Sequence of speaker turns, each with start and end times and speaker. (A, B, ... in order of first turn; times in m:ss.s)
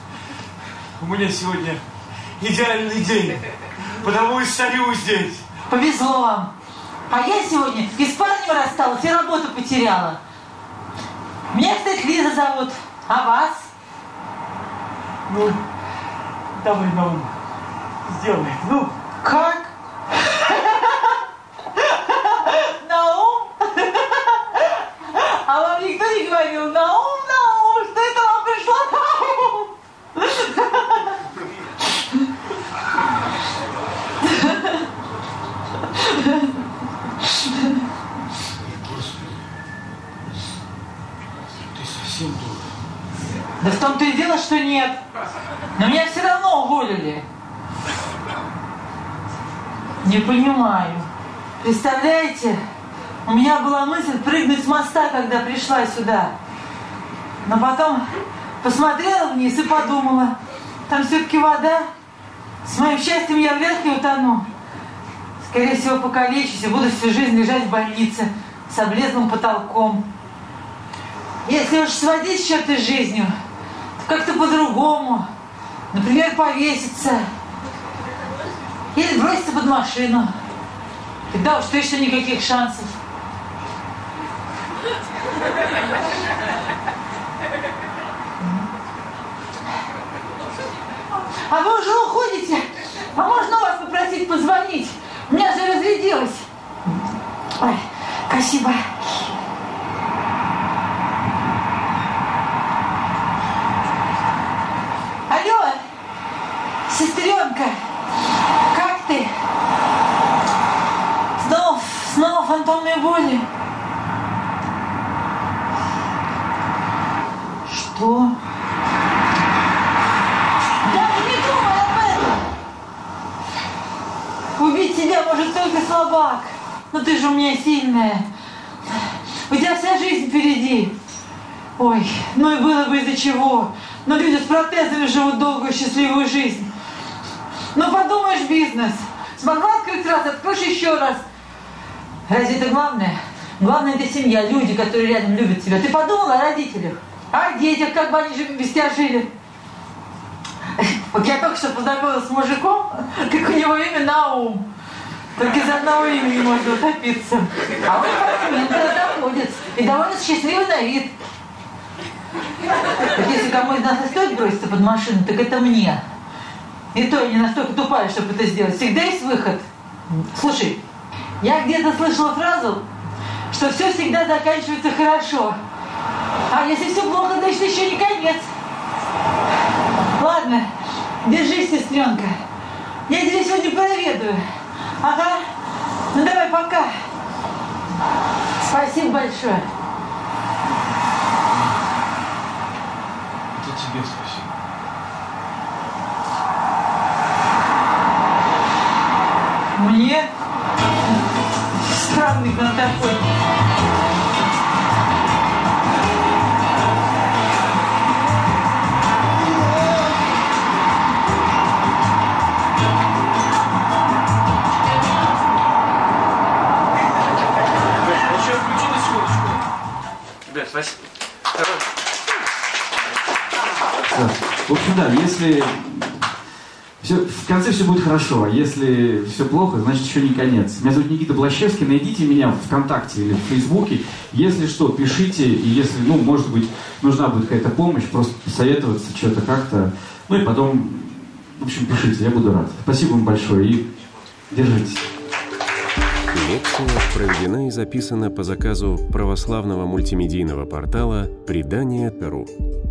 0:01.0-0:01.8 A
0:02.4-0:05.4 A
0:05.7-0:06.5 B
0:07.1-0:10.2 B
0:11.5-0:13.7 B
0:15.3-0:15.6 A
0:16.6-0:17.3 A
0:18.1-0:18.9 A
0:19.2-0:21.2 B
0:21.8-0:31.0 B
0:34.4-0:34.8 B
0:36.0-0:36.5 B
0:38.7-0:39.4 A
0:41.5-0:42.7 A
0:43.6-0:45.0 B
0:45.8-0:47.2 B
0:50.0-0:51.1 B
0:51.6-0:52.6 B
0:53.2-0:56.3 B
0:57.4-0:58.0 B
0:58.6-1:00.4 B
1:00.9-1:01.9 B
1:02.6-1:04.5 B
1:05.4-1:10.0 B
1:11.4-1:13.3 B
1:14.0-1:15.3 B
1:15.9-1:17.3 B
1:18.9-1:20.3 B
1:21.3-1:22.9 B
1:31.4-1:36.5 B
1:37.6-1:39.3 B
1:45.3-1:45.8 B
1:46.9-1:47.8 B
1:48.7-1:49.3 B
1:51.4-1:53.5 B
1:57.6-1:58.4 B
2:00.8-2:02.4 B
2:04.6-2:08.3 B
2:08.9-2:10.9 B
2:11.8-2:16.7 B
2:17.7-2:21.2 B
2:22.3-2:29.3 B
2:30.8-2:34.6 B
2:35.4-2:41.1 B
2:43.0-2:46.0 B
2:46.9-2:50.8 B
2:51.4-2:52.8 B
2:53.5-2:55.6 B
2:56.5-2:58.4 B
3:00.2-3:00.7 B
3:01.2-3:02.4 B
3:03.1-3:04.4 B
3:05.0-3:05.4 B
3:06.1-3:06.9 B
3:08.6-3:09.6 B
3:13.5-3:14.5 A
3:19.8-3:20.3 B
3:21.8-3:23.3 B
3:38.2-3:39.6 C
3:44.0-3:46.2 C
3:47.0-4:03.9 C
4:04.5-4:05.1 C
4:06.3-4:12.5 D